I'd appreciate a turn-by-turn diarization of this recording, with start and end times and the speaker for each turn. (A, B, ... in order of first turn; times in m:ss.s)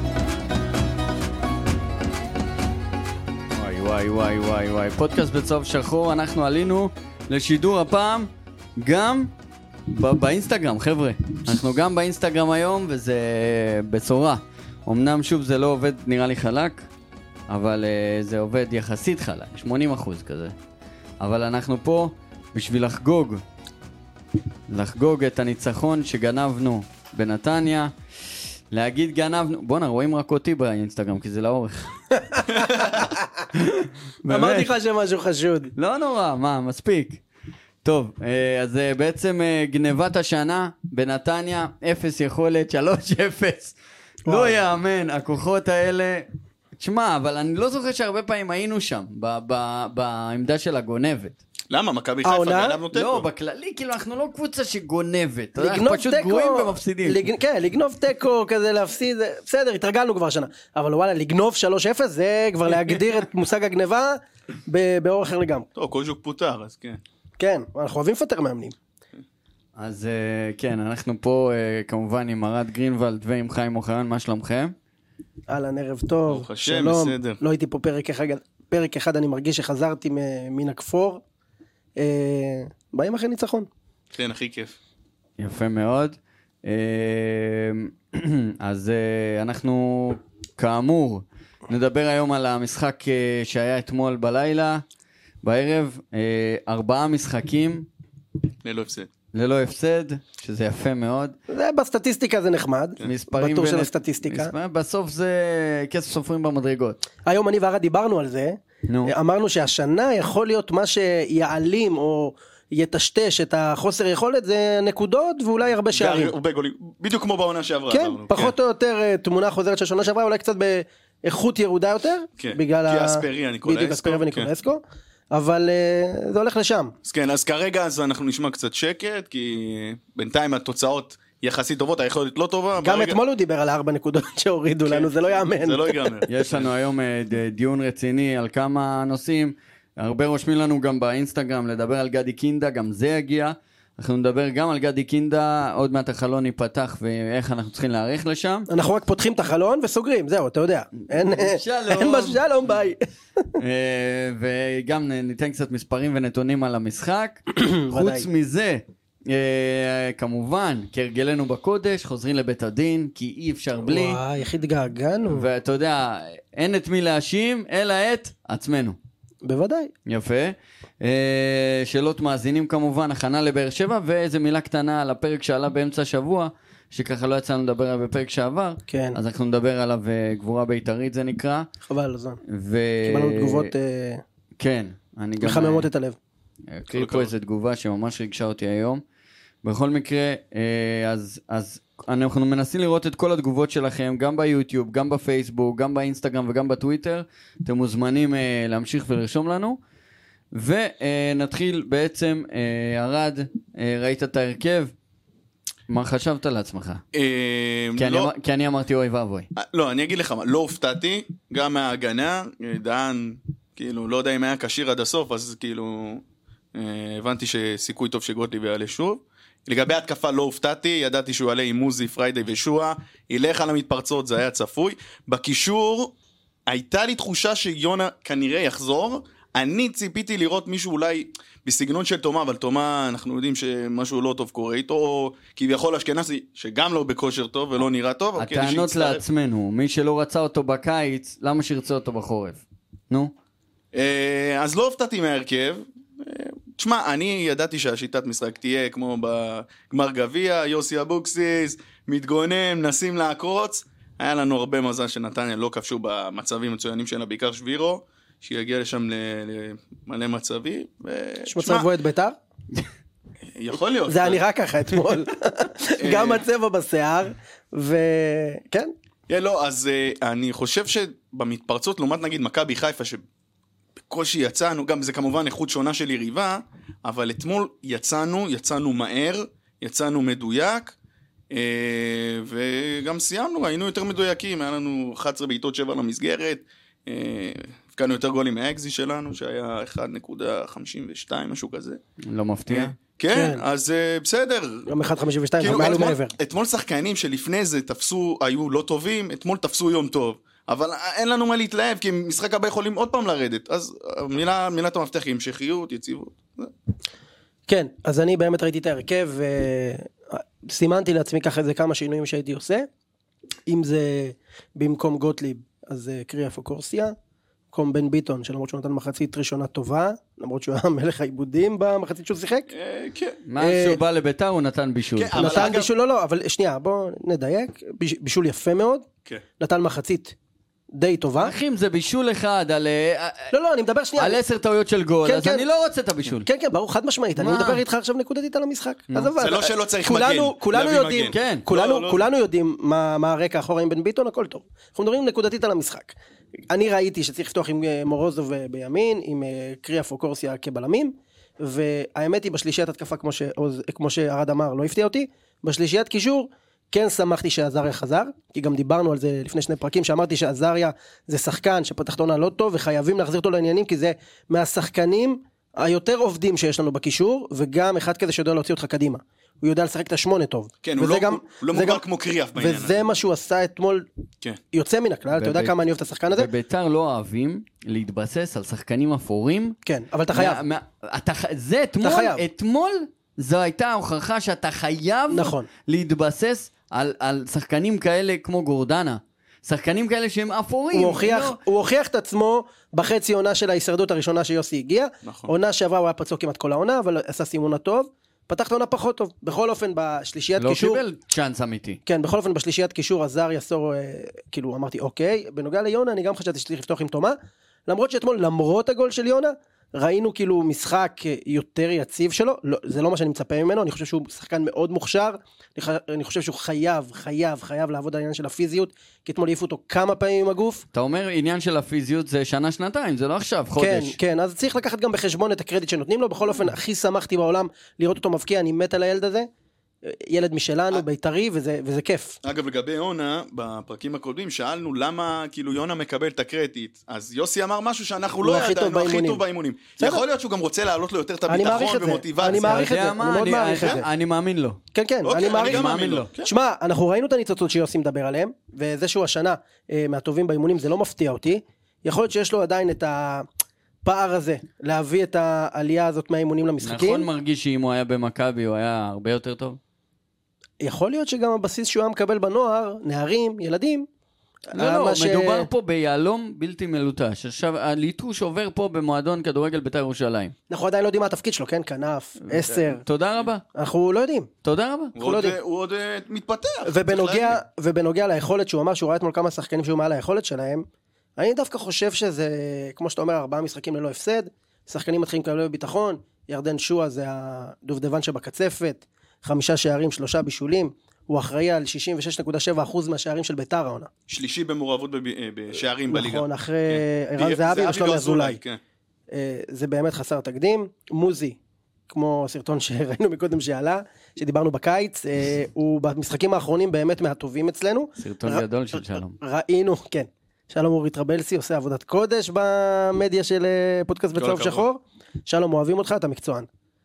0:03.5-0:09.3 A
0:09.9-0:16.8 A
0:17.5-0:20.5 A
0:21.2-0:23.4 A
0:24.7-0:27.9 A
0:28.7-0:32.0 A
0:32.3-0:32.6 B
0:33.5-0:34.7 A
0:34.3-0:35.7 B
0:35.8-0:37.2 A
0:37.8-0:51.4 A
0:44.2-0:44.6 B
0:51.7-0:53.2 C
0:52.2-0:52.8 B
0:52.9-0:57.2 A
0:55.6-1:05.6 B
1:05.7-1:07.0 C
1:07.4-1:08.7 B
1:09.8-1:14.7 A
1:15.5-1:21.2 B
1:16.3-1:17.4 C
1:22.0-1:23.7 B
1:24.1-1:24.8 C
1:25.4-1:34.8 A
1:35.4-1:37.9 A
1:38.6-1:39.1 C
1:39.3-1:41.4 A
1:41.5-1:44.5 B
1:43.0-1:47.0 A
1:47.2-1:56.3 B
1:48.9-1:49.1 A
1:55.9-1:58.5 C
1:57.9-2:06.9 B
2:02.4-2:04.5 C
2:07.0-2:13.2 C
2:12.8-2:16.3 B
2:14.8-2:16.7 C
2:16.3-2:28.7 A
2:28.7-2:33.5 B
2:31.0-2:32.4 A
2:33.6-2:44.2 A
2:37.5-2:38.3 B
2:43.8-2:45.5 B
2:45.3-2:49.0 A
2:49.4-2:49.9 B
2:50.0-3:01.7 A
2:58.9-2:59.2 B
3:01.9-3:02.4 B
3:02.5-3:03.7 A
3:03.0-3:04.2 B
3:04.6-3:05.9 A
3:05.4-3:06.2 B
3:06.7-3:09.0 A
3:06.9-3:07.3 C
3:09.6-3:19.8 A
3:20.5-3:24.9 A
3:25.9-3:27.0 A
3:27.1-3:28.3 C
3:28.0-3:29.5 A
3:29.6-3:36.2 C
3:36.7-3:46.1 C
3:46.7-3:59.2 C
3:58.4-4:03.3 A
4:03.9-4:21.9 C
4:21.5-4:22.4 B
4:23.6-4:24.4 C
4:24.1-4:28.9 B
4:26.0-4:26.4 C
4:29.3-4:33.2 C
4:34.1-4:40.9 C
4:41.5-4:52.0 C
4:52.2-4:52.9 A
4:52.7-4:54.9 C
4:53.3-4:53.6 B
4:54.9-4:56.3 B
4:55.6-5:06.7 C
5:07.7-5:12.9 B
5:13.7-5:17.1 B
5:17.7-5:22.7 B
5:22.7-5:23.4 C
5:23.5-5:25.7 A
5:23.6-5:24.0 B
5:25.2-5:25.9 C
5:25.3-5:29.1 B
5:29.6-5:30.3 B
5:30.9-5:31.5 B
5:31.4-5:33.5 A
5:33.5-5:34.4 B
5:34.2-5:36.4 A
5:35.2-5:35.6 B
5:36.4-5:46.1 B
5:37.4-5:37.8 A
5:39.3-5:42.2 C
5:41.3-5:41.6 A
5:46.7-6:12.0 B
6:10.8-6:13.1 C
6:12.6-6:14.1 B
6:14.7-6:16.5 B
6:15.3-6:15.8 A
6:16.3-6:19.8 A
6:19.8-6:20.6 B
6:20.3-6:31.6 A
6:22.0-6:22.4 B
6:25.3-6:25.7 B
6:30.9-6:41.0 B
6:35.2-6:35.5 C
6:40.6-6:42.0 A
6:42.0-7:00.8 B
7:00.9-7:04.2 A
7:03.8-7:09.5 B
7:10.0-7:12.4 B
7:12.4-7:22.9 C
7:18.4-7:19.4 B
7:21.5-7:24.1 B
7:22.5-7:24.8 A
7:24.9-7:33.4 B
7:25.2-7:26.5 C
7:25.6-7:26.3 A
7:34.0-7:37.3 B
7:36.8-7:39.8 A
7:40.8-7:44.1 B
7:44.7-7:45.7 B
7:44.7-7:50.5 A
7:50.7-7:53.0 B
7:52.4-7:53.6 A
7:53.7-7:54.5 B
7:54.6-7:55.2 A
7:55.2-7:55.6 B
7:55.2-7:57.6 C
7:56.8-8:00.8 B
8:01.4-8:14.1 B
8:14.3-8:18.8 C
8:16.1-8:18.6 B
8:19.3-8:21.6 B
8:22.1-8:36.7 B
8:28.2-8:29.4 A
8:34.4-8:34.8 C